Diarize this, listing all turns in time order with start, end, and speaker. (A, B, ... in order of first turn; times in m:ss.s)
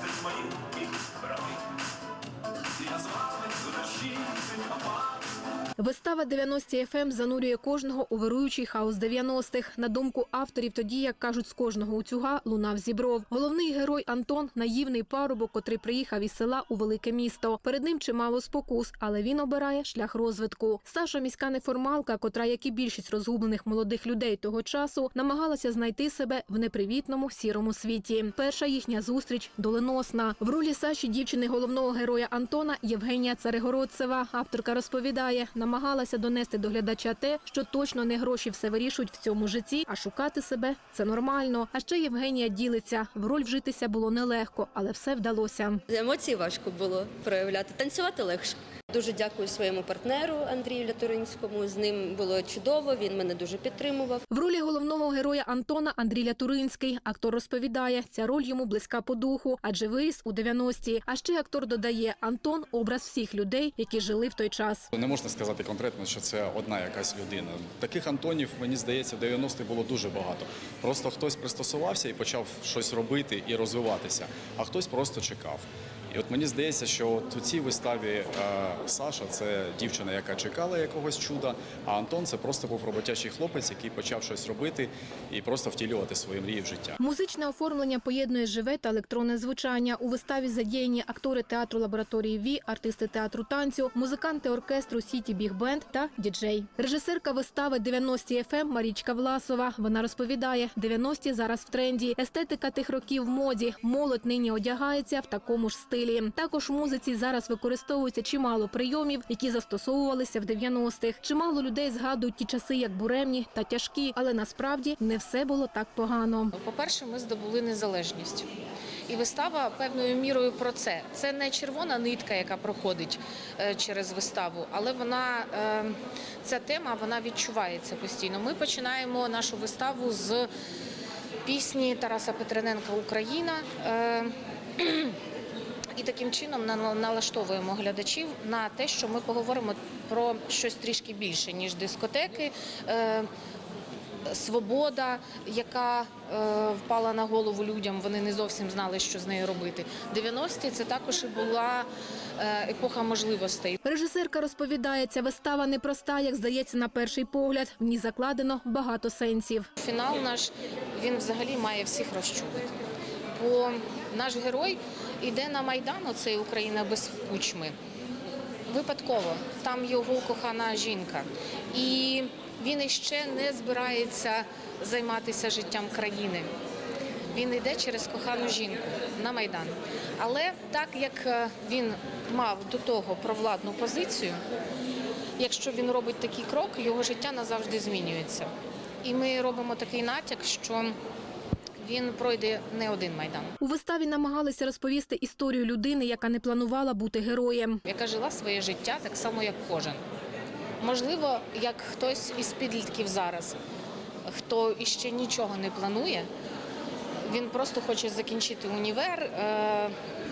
0:05.8-0:45.8 A
0:45.9-0:54.2 B
0:54.3-1:04.9 A
1:04.9-1:27.0 C
1:27.0-1:56.5 A
1:56.5-1:58.5 D
1:59.1-2:10.5 D
2:11.4-2:15.2 D
2:15.9-2:23.3 D
2:24.2-2:33.8 D
2:33.8-2:39.7 A
2:39.8-2:42.7 D
2:43.3-2:47.8 D
2:48.7-2:56.5 D
2:57.3-3:04.4 D
3:05.4-3:08.5 D
3:09.0-3:11.0 D
3:11.8-3:13.5 D
3:13.6-3:17.8 A
3:17.8-3:20.0 D
3:20.8-3:23.6 D
3:24.2-3:26.3 D
3:27.2-3:29.9 D